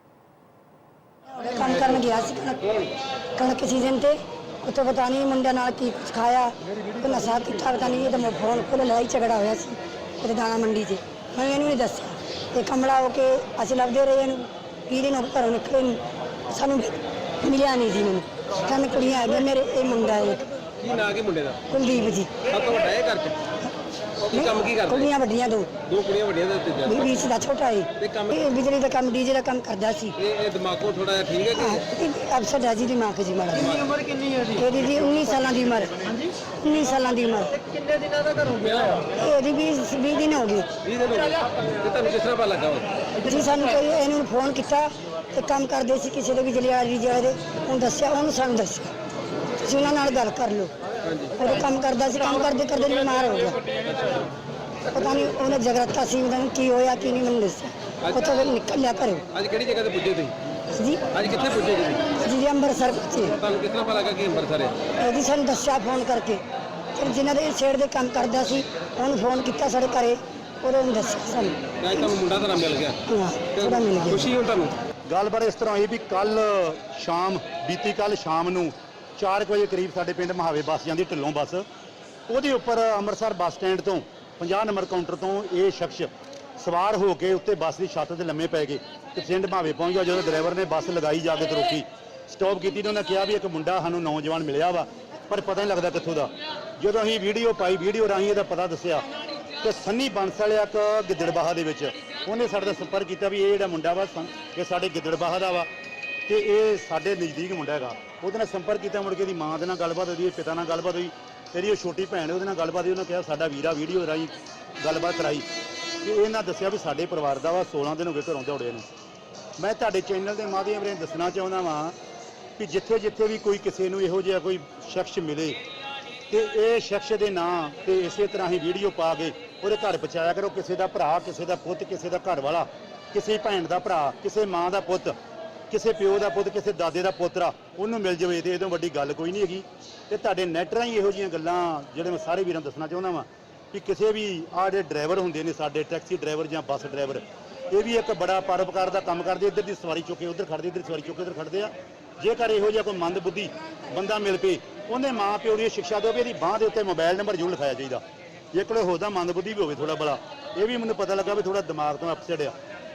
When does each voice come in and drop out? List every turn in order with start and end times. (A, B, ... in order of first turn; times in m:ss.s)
0:01.3-0:20.4 A
0:20.8-0:21.6 B
0:21.7-0:22.4 A
0:22.5-0:23.4 B
0:24.3-0:25.1 B
0:24.3-0:25.8 A
0:25.8-0:27.0 B
0:26.8-0:30.2 A
0:28.0-0:28.3 B
0:30.2-0:31.8 B
0:31.5-0:37.6 A
0:37.9-0:39.1 B
0:39.0-0:40.7 A
0:40.8-0:43.0 B
0:43.2-0:48.9 A
0:49.6-0:50.7 A
0:51.0-0:51.4 B
0:51.4-0:53.7 A
0:54.9-0:59.3 A
0:59.3-1:00.4 B
1:00.7-1:01.1 A
1:01.1-1:02.1 B
1:02.1-1:03.4 A
1:03.4-1:04.8 B
1:05.0-1:06.4 A
1:07.0-1:12.1 A
1:11.8-1:13.0 B
1:13.1-1:14.3 A
1:13.6-1:14.8 B
1:15.1-1:21.6 C
1:22.3-1:39.1 C
1:39.6-1:45.7 C
1:46.3-1:55.5 C
1:56.0-1:58.9 C
1:59.6-2:02.0 C
2:02.6-2:05.6 C
2:06.3-2:15.1 C
2:15.7-2:38.0 C
2:38.5-2:42.5 C